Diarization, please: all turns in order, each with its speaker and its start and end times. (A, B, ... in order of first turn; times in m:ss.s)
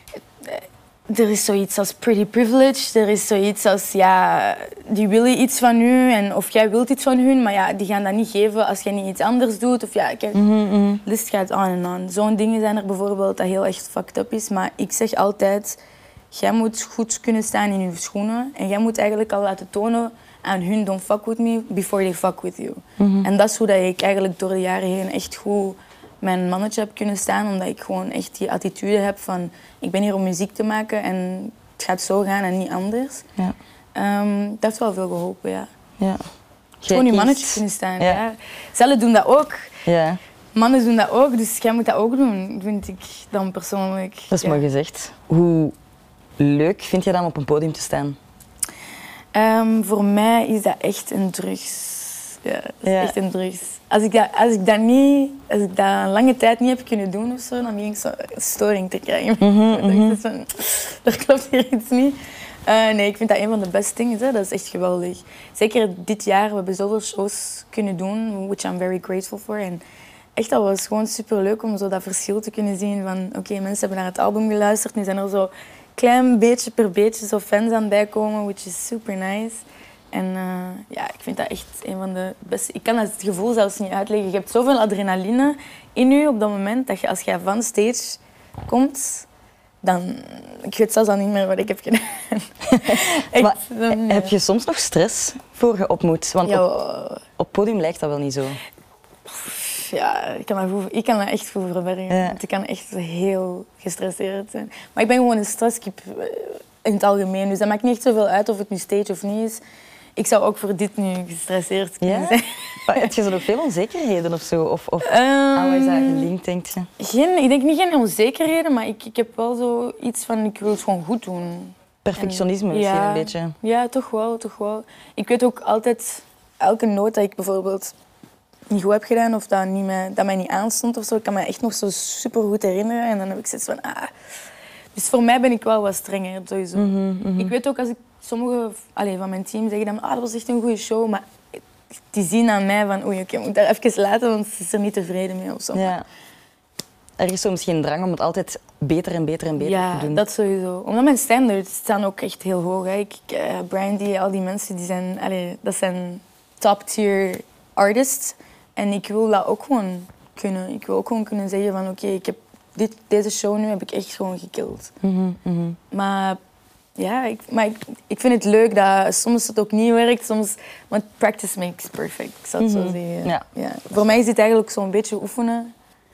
0:00.4-0:10.4 A
0:10.3-0:11.0 B
0:11.0-0:15.8 A
0:16.3-0:33.2 A
0:23.0-0:23.3 B
0:33.9-0:35.7 A
0:36.0-0:36.2 B
0:36.8-0:38.2 B
0:36.9-0:39.7 A
0:39.8-0:40.2 B
0:40.5-0:44.6 A
0:44.3-0:45.7 B
0:46.4-0:48.2 B
0:49.3-1:09.8 A
0:52.8-0:53.1 B
0:59.4-1:00.2 B
1:10.4-1:29.3 A
1:29.8-1:34.3 A
1:32.8-1:36.6 B
1:36.4-1:37.2 A
1:37.4-1:38.6 B
1:39.3-1:49.6 A
1:42.1-1:42.4 B
1:50.2-1:53.1 A
1:52.0-1:56.9 B
1:55.0-1:56.3 A
1:57.0-2:07.9 A
2:02.0-2:03.5 B
2:08.7-2:14.1 A
2:14.9-2:21.6 A
2:16.8-2:17.5 B
2:22.1-2:25.9 A
2:25.7-2:26.0 B
2:27.2-2:30.2 B
2:29.6-2:44.9 A
2:45.0-2:45.8 B
2:45.9-2:46.4 A
2:47.0-2:55.7 A
2:52.6-2:53.4 B